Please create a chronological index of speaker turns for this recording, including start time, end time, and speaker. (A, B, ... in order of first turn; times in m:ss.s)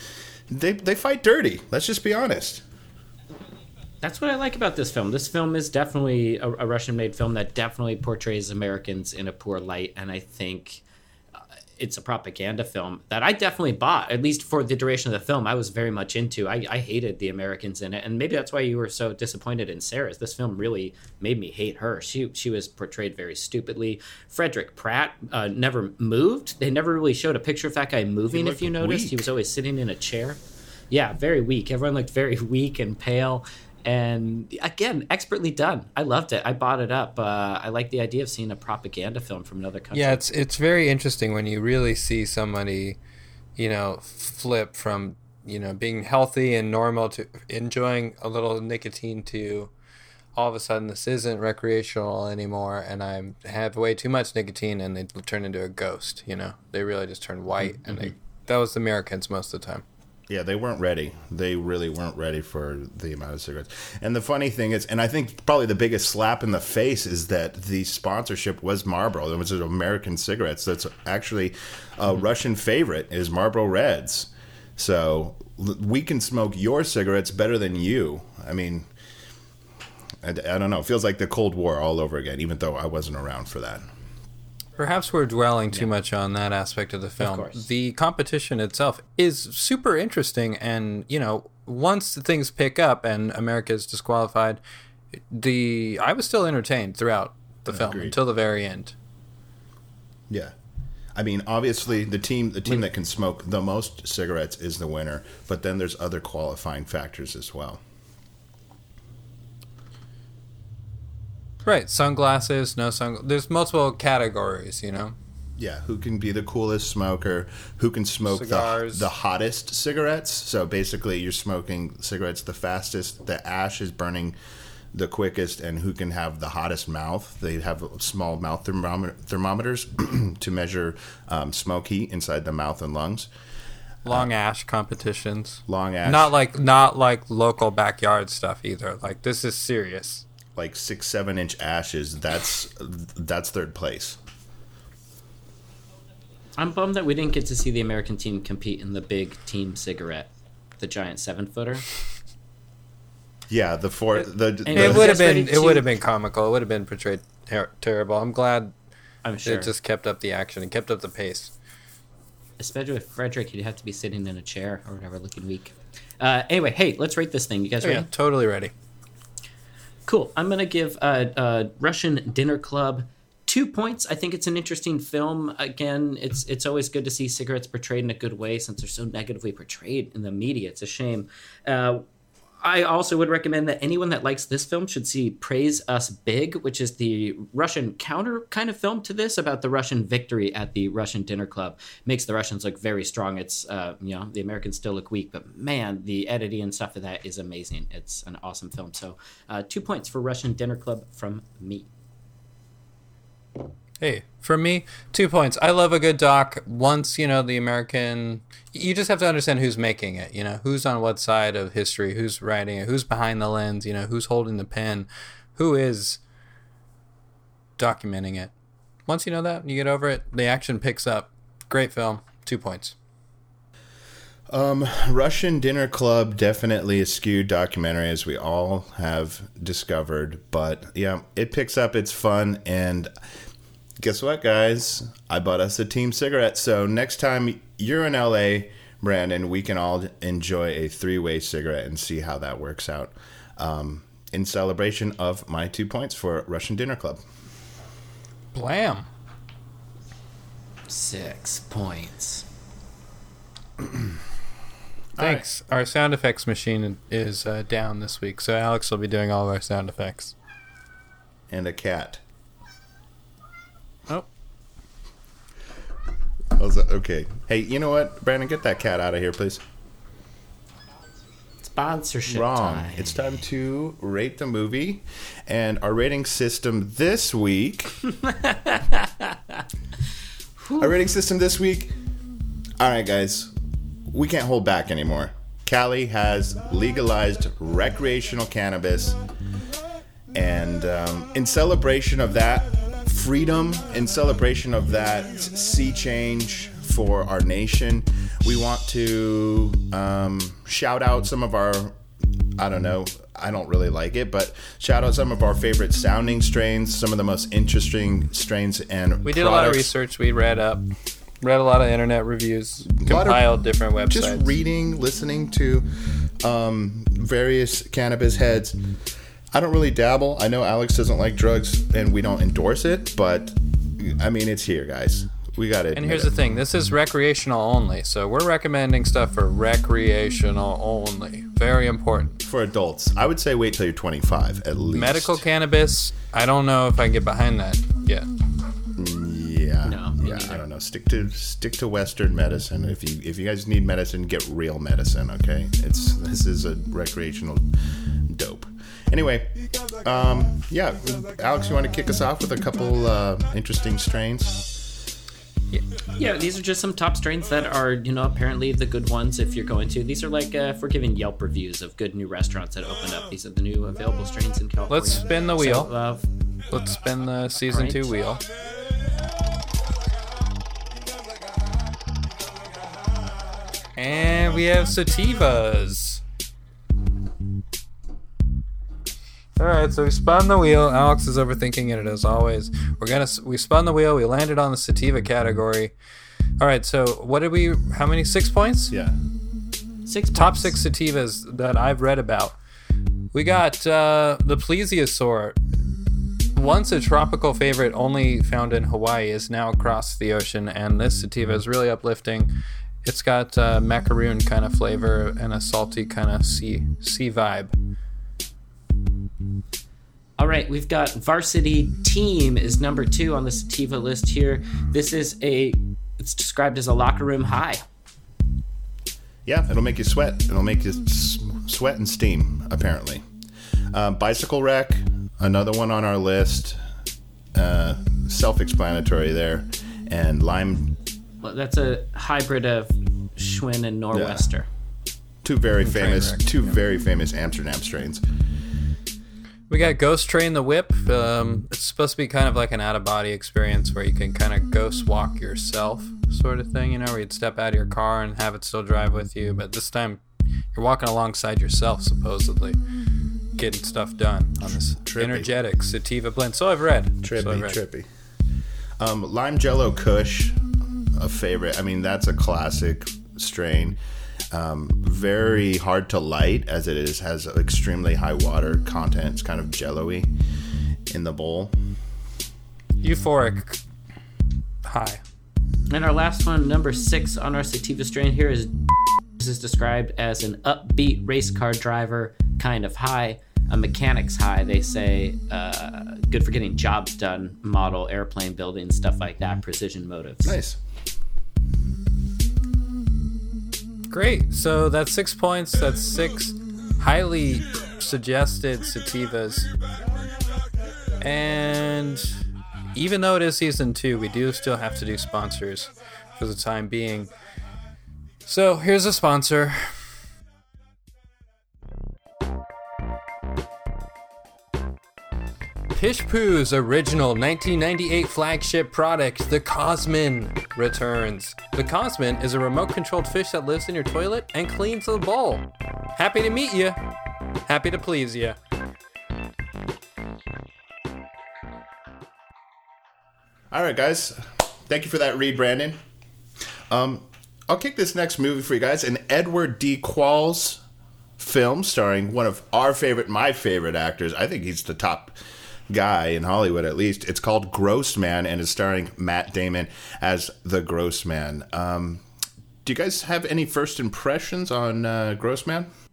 0:00.5-0:02.6 A
0:04.0-0:10.8 B
0:11.8-0:40.2 B
0:28.3-0:29.3 A
0:39.9-0:43.0 C
0:43.6-0:49.7 C
0:50.3-0:59.8 C
1:00.3-1:18.9 A
1:20.2-1:23.8 A
1:24.8-1:34.6 C
1:27.2-1:27.6 B
1:35.3-1:38.9 C
1:37.7-1:38.2 A
1:40.3-1:40.5 A
1:41.2-1:47.8 A
1:51.6-1:55.1 C
1:55.6-2:04.4 A
1:58.3-1:59.1 C
2:04.9-2:13.3 A
2:14.0-2:20.2 C
2:15.7-2:16.3 A
2:20.6-2:24.2 A
2:26.6-2:31.9 B
2:33.5-2:35.1 A
2:34.6-2:35.9 B
2:34.8-2:38.7 C
2:39.2-2:39.7 B
2:39.4-2:41.5 C
2:42.6-2:48.1 B
2:47.8-2:48.7 C
2:50.1-3:02.0 B
3:02.6-3:21.9 B
3:24.0-3:36.2 C
3:37.8-3:38.5 C
3:39.1-3:42.9 C
3:44.5-3:53.1 A
3:54.0-4:07.2 A
4:08.5-4:09.1 C
4:10.9-4:12.5 B
4:15.2-4:15.5 A
4:15.2-4:20.4 C
4:21.5-4:22.2 A
4:26.5-4:29.6 A
4:31.6-4:33.1 B
4:32.3-4:38.0 A
4:38.1-4:39.6 B
4:40.8-4:42.0 A
4:42.8-4:43.5 A
4:44.1-4:49.2 A
4:50.3-5:02.0 A
5:02.6-5:09.9 A
5:09.2-5:10.8 C
5:11.4-5:14.5 C
5:12.9-5:13.4 A
5:14.1-5:15.9 A
5:16.4-5:18.8 A
5:19.5-5:26.4 A
5:25.9-5:32.4 C
5:32.4-5:35.4 A
5:34.9-5:38.3 C
5:39.0-5:54.6 A
5:39.8-5:40.6 B
5:56.2-6:06.3 B
6:04.9-6:05.9 C
6:06.7-6:08.4 C
6:07.6-6:08.1 B
6:14.0-6:16.2 C
6:19.6-6:25.9 C
6:26.6-6:28.9 C
6:28.9-6:29.2 A
6:30.1-6:30.8 B
6:30.3-6:32.6 C
6:33.3-6:35.6 C
6:36.5-6:42.5 C
6:43.0-6:47.7 C
6:50.4-6:57.8 B
6:59.5-7:03.2 A
7:03.9-7:06.8 A
7:07.5-7:10.9 A
7:11.4-7:14.7 B
7:14.1-7:14.5 A
7:15.4-7:18.2 A
7:15.8-7:16.5 C
7:19.7-7:30.2 C
7:30.7-7:32.8 C
7:33.6-7:37.8 C
7:34.6-7:35.5 A
7:37.2-7:38.1 A
7:39.0-7:40.6 A
7:41.1-7:44.0 A
7:44.5-7:50.3 A
7:51.1-7:51.8 A
7:53.0-7:53.8 C
7:54.8-7:55.2 C
7:55.9-7:58.7 B
7:59.4-8:10.6 B
8:10.4-8:10.8 A
8:14.1-8:19.7 C
8:21.2-8:22.4 C
8:22.9-8:27.3 C
8:28.5-8:30.1 C
8:35.9-8:47.0 C
8:47.7-8:48.6 C
8:53.7-8:56.0 A
8:56.9-9:00.8 A
9:01.4-9:05.4 A
9:05.9-9:12.2 A
9:12.8-9:15.9 A